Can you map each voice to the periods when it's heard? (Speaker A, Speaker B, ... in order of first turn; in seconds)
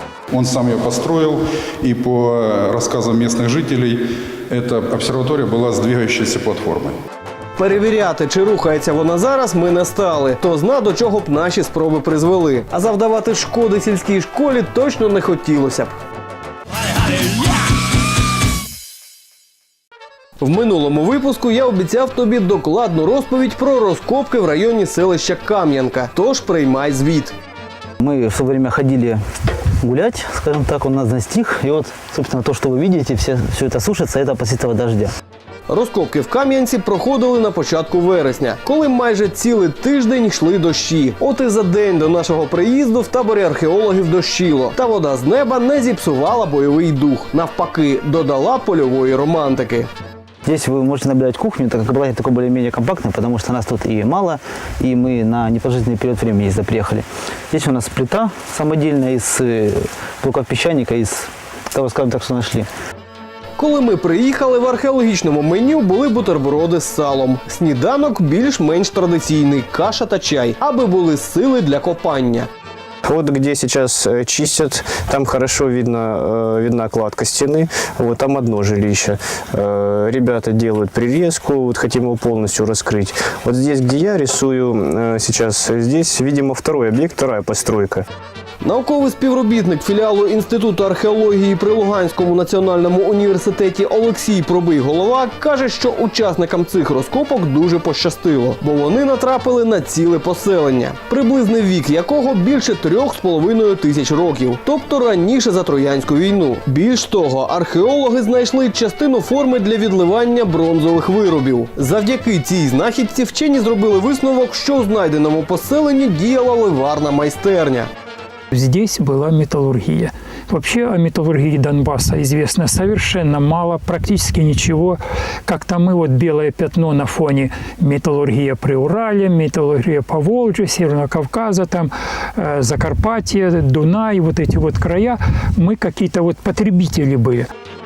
Speaker A: 0.3-7.0
Speaker B: 7.6-16.0, 20.4-27.4, 35.7-49.9, 63.6-72.5, 88.6-117.9
Speaker C: 28.0-29.2, 29.8-35.1, 50.4-62.7
Speaker D: 73.0-88.0
Speaker E: 118.5-137.5